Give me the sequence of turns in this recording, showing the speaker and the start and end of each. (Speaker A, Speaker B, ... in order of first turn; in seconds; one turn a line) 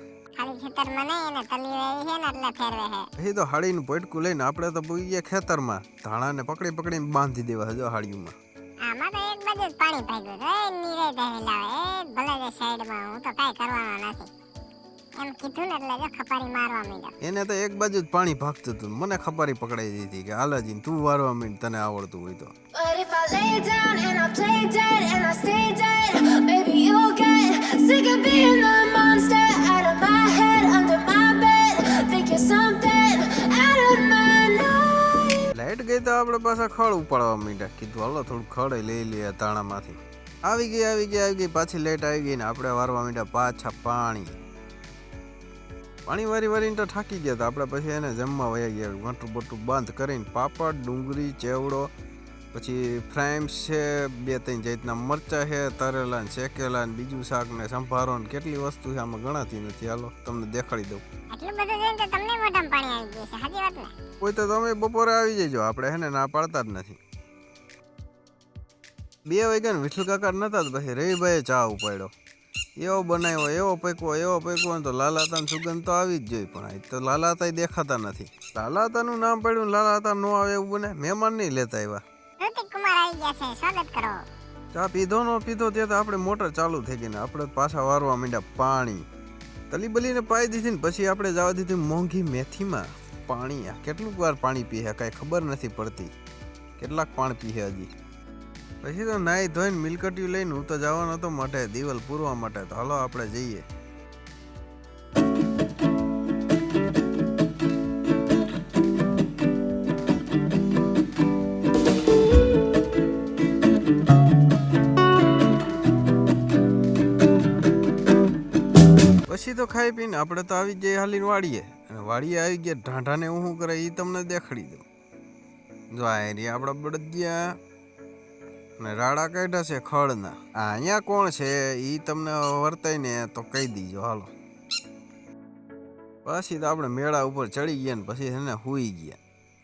Speaker A: 0.4-3.1
Speaker B: 3.2-8.4
Speaker A: 8.9-14.3
Speaker A: 15.2-17.1
Speaker B: 17.2-22.5
Speaker C: 22.8-35.5
Speaker B: 35.5-44.4
Speaker B: 46.1-51.9
Speaker B: 52.5-61.0
Speaker A: 61.3-63.9
Speaker B: 64.2-67.0
Speaker B: 69.3-72.1
Speaker B: 72.8-82.0
Speaker A: 82.4-84.2
Speaker B: 84.7-89.0
Speaker B: 89.7-96.1
Speaker B: 96.8-97.9
Speaker B: 98.8-103.7
Speaker B: 119.3-124.8
Speaker B: 125.9-127.5
Speaker B: 128.8-134.3
Speaker B: 136.2-139.2